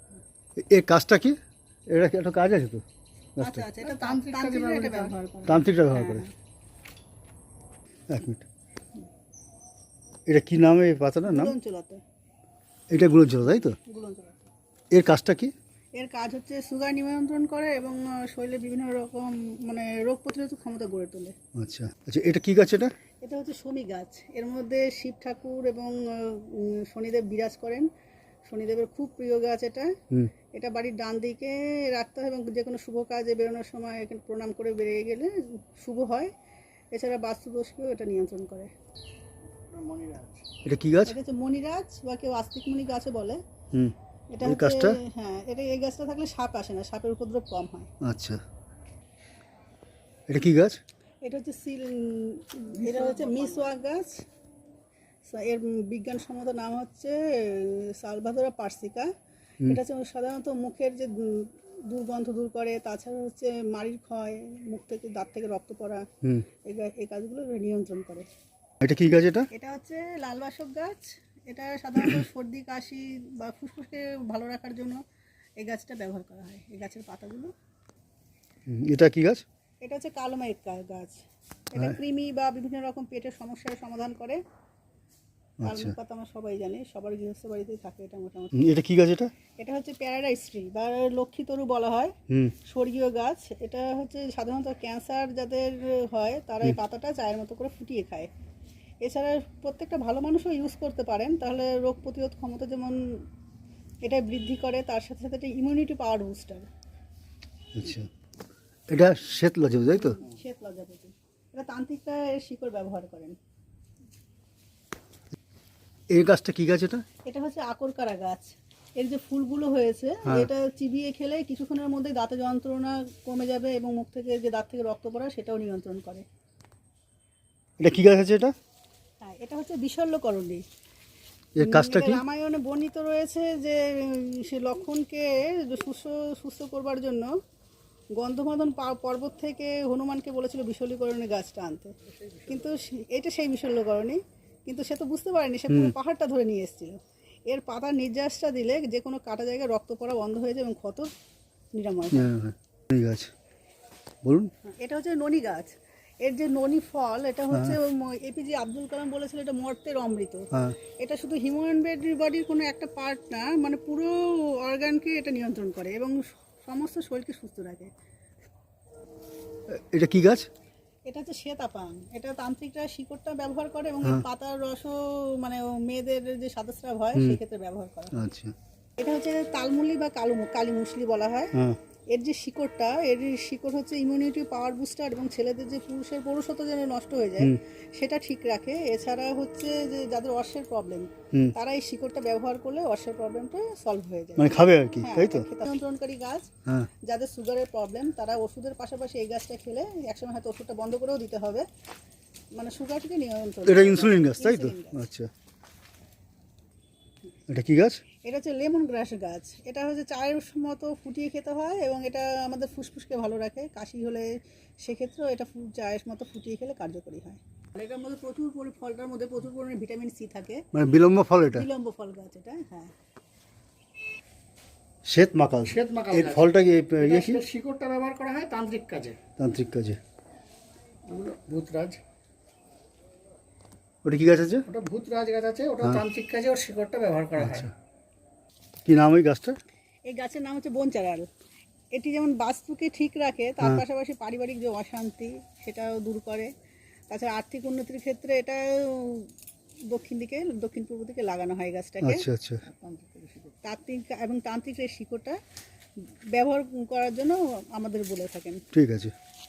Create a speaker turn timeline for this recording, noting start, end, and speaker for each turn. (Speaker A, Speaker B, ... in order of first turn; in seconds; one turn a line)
Speaker A: 0.6-1.4
Speaker A: 1.9-2.8
Speaker A: 3.4-3.6
Speaker B: 3.4-6.3
Speaker C: 3.8-5.1
Speaker A: 5.5-6.2
Speaker A: 8.1-8.4
Speaker A: 10.3-11.5
Speaker B: 11.2-12.0
Speaker A: 12.9-13.8
Speaker B: 13.6-14.5
Speaker A: 14.9-15.5
Speaker B: 15.9-21.3
Speaker A: 21.5-22.9
Speaker B: 23.2-27.9
Speaker B: 28.4-30.0
Speaker B: 30.5-36.3
Speaker B: 36.9-38.7
Speaker C: 39.7-40.5
Speaker A: 40.6-41.1
Speaker B: 41.0-43.4
Speaker A: 43.7-45.0
Speaker B: 44.3-47.9
Speaker A: 48.0-48.4
Speaker A: 50.3-50.8
Speaker B: 51.2-54.2
Speaker C: 52.7-53.7
Speaker B: 55.2-59.1
Speaker B: 59.6-66.1
Speaker B: 66.6-68.3
Speaker A: 68.8-69.5
Speaker B: 69.5-75.0
Speaker B: 75.6-77.5
Speaker A: 78.7-79.4
Speaker B: 79.8-81.2
Speaker B: 81.7-84.4
Speaker A: 85.6-85.9
Speaker B: 85.6-88.7
Speaker A: 88.5-89.3
Speaker B: 89.6-92.1
Speaker A: 92.3-92.5
Speaker B: 92.6-98.3
Speaker B: 99.0-103.0
Speaker B: 104.0-106.7
Speaker A: 107.7-108.1
Speaker A: 108.9-110.2
Speaker B: 110.0-113.3
Speaker A: 116.1-117.0
Speaker B: 117.2-126.2
Speaker A: 127.8-128.5
Speaker B: 129.2-130.6
Speaker A: 131.6-132.2
Speaker B: 131.6-137.3
Speaker B: 138.2-141.9
Speaker B: 142.4-151.1
Speaker A: 145.7-145.9
Speaker B: 151.7-152.3
Speaker A: 152.1-153.3
Speaker A: 154.2-154.5
Speaker B: 154.7-167.9
Speaker A: 157.5-157.8
Speaker A: 169.7-170.5
Speaker B: 171.1-178.2
Speaker A: 178.1-178.5
Speaker B: 179.0-181.5
Speaker B: 182.1-196.5
Speaker A: 194.4-195.5
Speaker B: 197.0-201.7
Speaker B: 202.5-205.1
Speaker A: 203.7-205.3
Speaker A: 207.5-208.0
Speaker B: 208.2-214.3
Speaker B: 214.8-220.7
Speaker A: 220.7-221.7
Speaker B: 221.5-222.9
Speaker A: 225.0-227.4
Speaker C: 225.7-226.4
Speaker C: 227.0-229.2
Speaker A: 229.4-230.0
Speaker C: 231.0-232.0
Speaker A: 234.0-234.7
Speaker C: 234.7-237.7
Speaker A: 237.4-237.7
Speaker A: 238.8-239.6
Speaker B: 240.1-241.3
Speaker B: 241.9-246.5
Speaker B: 247.1-249.3
Speaker B: 249.9-252.3
Speaker A: 252.0-252.6
Speaker C: 252.6-253.5
Speaker B: 253.6-255.4
Speaker B: 256.0-258.6
Speaker A: 258.7-259.1